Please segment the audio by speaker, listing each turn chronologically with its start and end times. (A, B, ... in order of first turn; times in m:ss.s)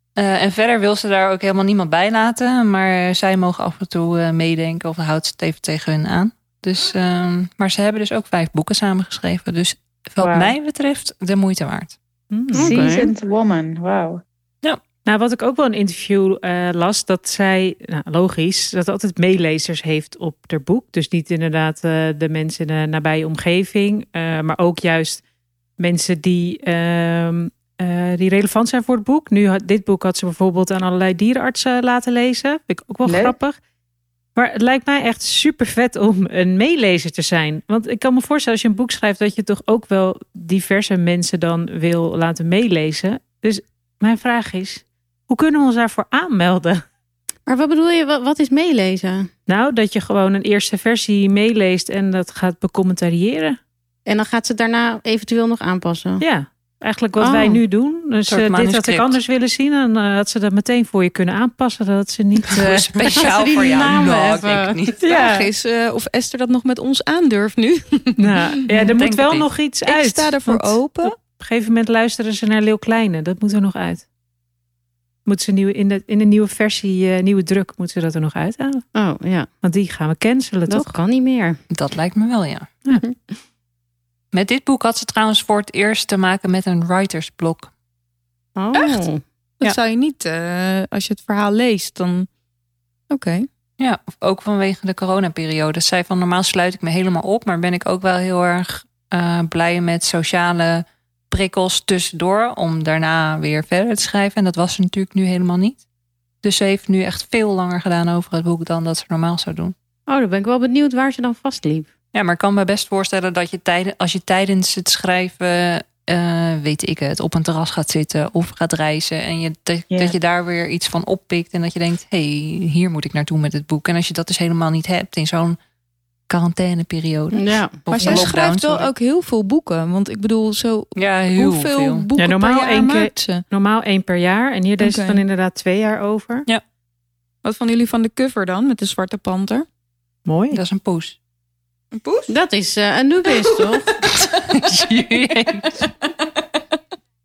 0:00.2-0:12.0 A
0:10.2-0:10.5 B
0:12.3-0:12.9 C
0:12.5-0:13.1 D
0:12.5-0:14.2 B
0:15.0-0:25.2 C
0:25.8-0:33.6 C
0:33.0-0:33.3 B
0:34.4-0:46.8 C
0:47.5-0:49.3 D
0:49.5-0:53.6 C
0:54.1-0:56.2 D
0:56.2-1:03.3 C
0:57.2-0:57.6 D
0:58.3-0:59.2 A
1:02.4-1:05.0 A
1:03.1-1:04.8 D
1:05.0-1:05.5 C
1:05.0-1:08.4 E
1:08.2-1:14.0 C
1:08.9-1:09.5 A
1:09.8-1:11.1 E
1:15.2-1:18.8 C
1:18.9-1:19.5 D
1:19.6-1:21.0 C
1:20.7-1:21.6 D
1:21.7-1:22.7 A
1:24.3-1:27.7 A
1:28.6-1:29.2 D
1:28.7-1:29.0 E
1:29.6-1:32.3 E
1:33.1-1:33.5 E
1:33.8-1:45.8 A
1:46.4-1:49.7 A
1:50.1-1:51.9 D
1:52.1-2:05.6 A
2:06.3-2:08.9 A
2:07.3-2:07.8 D
2:07.9-2:13.4 E
2:10.9-2:12.1 A
2:12.2-2:16.4 C
2:14.8-2:15.2 E
2:17.4-2:19.6 E
2:20.2-2:20.6 C
2:20.5-2:21.2 A
2:21.9-2:22.3 E
2:22.3-2:23.9 D
2:24.0-2:25.9 A
2:25.8-2:26.8 E